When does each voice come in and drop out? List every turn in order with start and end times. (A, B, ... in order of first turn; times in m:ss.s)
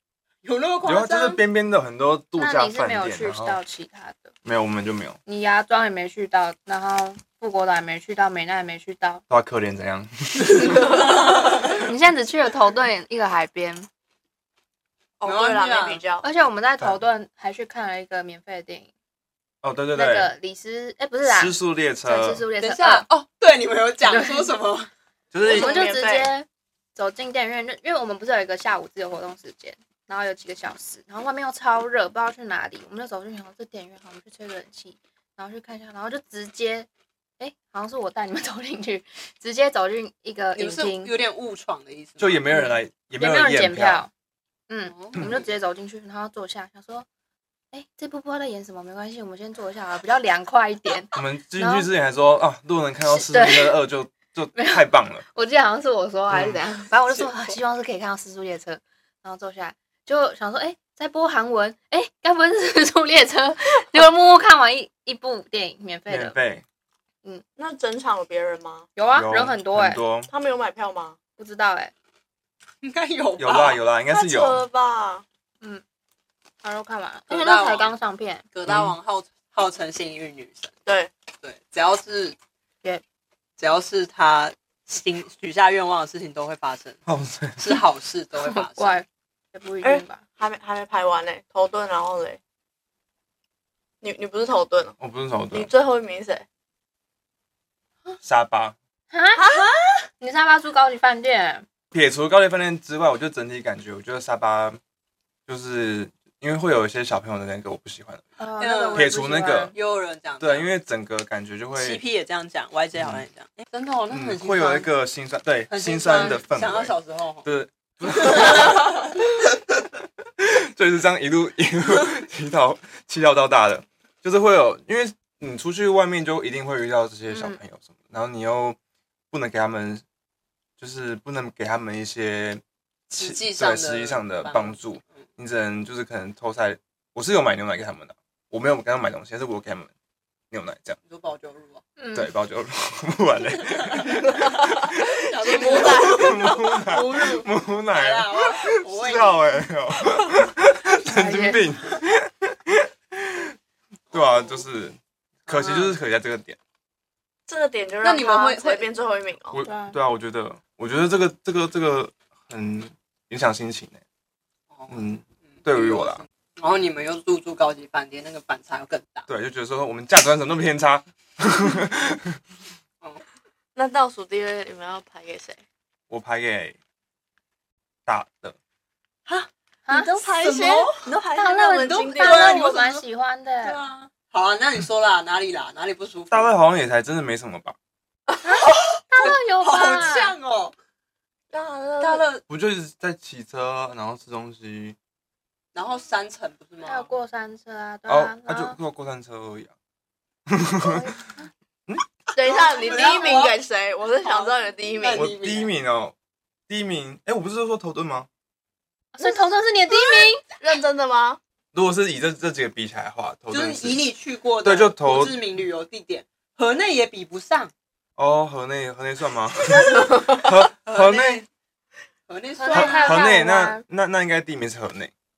0:00.4-0:01.4 A
0:00.8-0:03.6 B
0:02.4-0:04.3 C
0:04.4-0:05.2 B
0:05.2-0:09.2 C
0:09.3-0:11.0 B
0:11.3-0:11.7 A
0:11.8-0:13.9 C
0:15.2-0:16.3 D
0:15.2-0:16.0 A
0:16.2-0:18.9 C
0:19.6-0:20.3 B
0:19.9-0:23.0 C
0:21.2-0:22.4 B
0:22.6-0:24.9 A
0:24.0-0:24.5 C
0:25.3-0:25.9 B
0:25.4-0:26.3 D
0:25.5-0:36.9 C
0:37.4-0:41.1 C
0:40.6-0:42.5 A
0:42.2-0:44.0 B
0:42.5-0:44.1 C
0:44.7-0:47.1 C
0:44.9-0:45.4 A
0:47.7-0:51.9 C
0:51.1-0:55.2 B
0:53.0-0:53.8 C
0:54.5-1:06.4 C
0:56.3-0:56.6 B
0:57.1-0:57.5 A
1:06.1-1:06.6 B
1:07.6-1:08.9 D
1:09.0-1:10.0 C
1:09.1-1:10.3 B
1:10.3-1:11.2 D
1:11.4-1:11.9 C
1:12.8-1:13.8 A
1:13.4-1:14.6 B
1:14.1-1:15.2 D
1:16.6-1:18.4 C
1:17.3-1:17.9 A
1:18.5-1:20.8 A
1:18.7-1:19.0 B
1:20.8-1:21.1 D
1:21.4-1:22.4 A
1:23.6-1:27.0 A
1:27.1-1:27.8 B
1:27.6-1:29.0 A
1:28.4-1:30.2 C
1:29.8-1:32.4 D
1:34.0-1:35.0 D
1:35.0-1:35.7 B
1:35.5-1:36.4 D
1:38.2-1:38.8 B
1:39.1-1:39.4 C
1:39.3-1:40.0 D
1:40.2-1:41.6 C
1:41.9-1:44.8 B
1:45.5-1:48.3 B
1:48.4-1:49.8 C
1:48.6-1:50.7 A
1:48.9-1:49.8 B
1:50.4-1:52.0 B
1:51.7-1:54.9 A
1:53.0-1:53.2 B
1:54.1-1:59.2 B
1:55.7-1:57.5 A
1:58.0-1:59.0 A
2:00.4-2:08.8 B
2:07.3-2:07.6 C
2:09.3-2:10.0 B
2:10.8-2:19.9 B
2:13.1-2:15.2 A
2:20.5-2:21.0 B
2:21.0-2:21.8 A
2:22.0-2:22.3 C
2:22.1-2:33.5 B
2:23.4-2:29.6 A
2:25.4-2:26.6 D
2:31.0-2:31.6 C
2:34.1-2:36.6 B
2:34.1-2:34.6 A
2:35.5-2:35.9 A
2:37.5-2:39.6 D
2:38.0-2:38.9 A
2:39.5-2:44.0 B
2:39.6-2:40.0 C
2:44.7-2:49.3 A
2:44.9-2:46.2 B
2:49.3-2:52.4 B
2:53.7-2:55.6 D
2:56.1-2:56.8 B
2:58.0-2:58.6 B
2:59.3-3:02.6 D
2:59.8-3:00.3 C
3:00.2-3:01.1 A
3:01.3-3:03.8 C
3:01.8-3:03.0 A
3:03.6-3:06.6 A
3:06.3-3:07.8 B
3:08.4-3:10.4 C
3:08.7-3:10.7 A
3:11.5-3:12.2 D
3:12.0-3:12.4 A
3:12.5-3:15.0 B
3:15.7-3:17.1 A
3:16.8-3:18.8 C
3:18.1-3:19.7 B
3:20.5-3:21.0 B
3:20.8-3:21.5 C
3:22.3-3:25.3 D
3:22.5-3:23.6 A
3:24.2-3:25.7 A
3:25.1-3:26.1 B
3:26.7-3:28.3 B
3:29.1-3:30.4 C
3:29.2-3:31.4 D
3:31.7-3:34.1 B
3:33.5-3:37.7 A
3:34.6-3:35.4 B
3:38.2-3:41.4 B
3:40.8-3:41.4 A
3:42.3-3:43.2 A
3:42.6-3:43.8 C
3:42.7-3:45.1 B